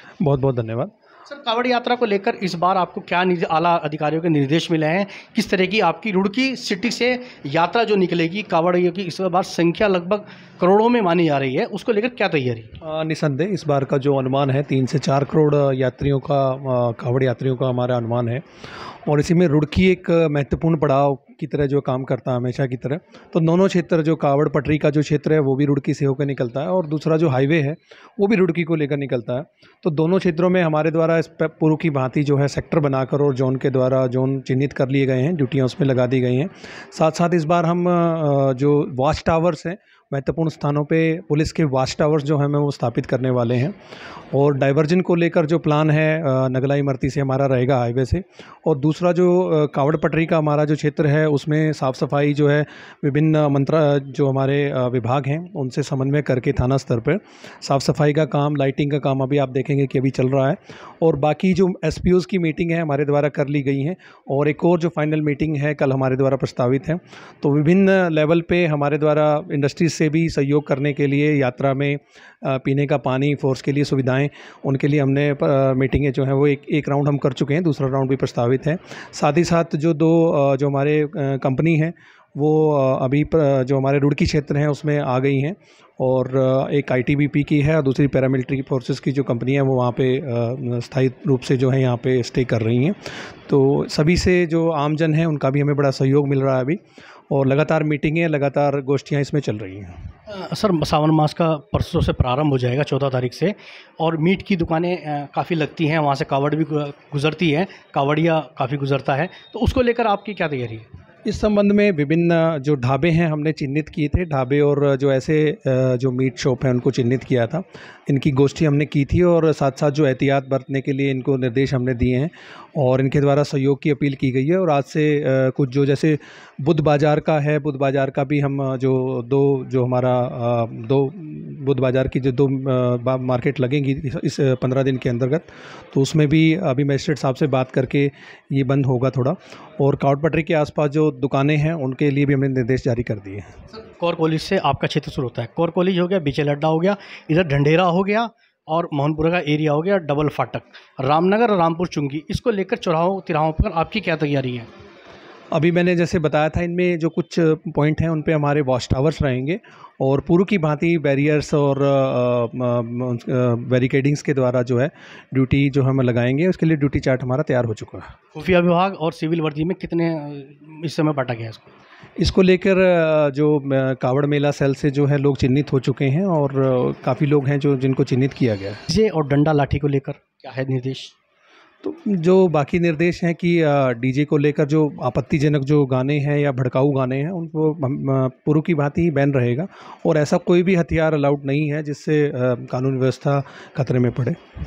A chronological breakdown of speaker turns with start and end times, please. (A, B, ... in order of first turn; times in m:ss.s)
0:00.2-0:00.9 A
0:01.3-0:12.7 B
0:12.8-0:18.4 A
0:19.0-0:43.7 A
0:44.3-1:36.8 A
1:37.3-1:40.0 A
1:40.3-1:50.9 B
1:51.2-2:23.5 A
2:23.7-2:34.7 B
2:35.5-2:48.1 A
2:48.3-2:51.7 B
2:52.2-2:58.8 A
2:58.9-3:01.1 B
3:01.8-3:14.4 A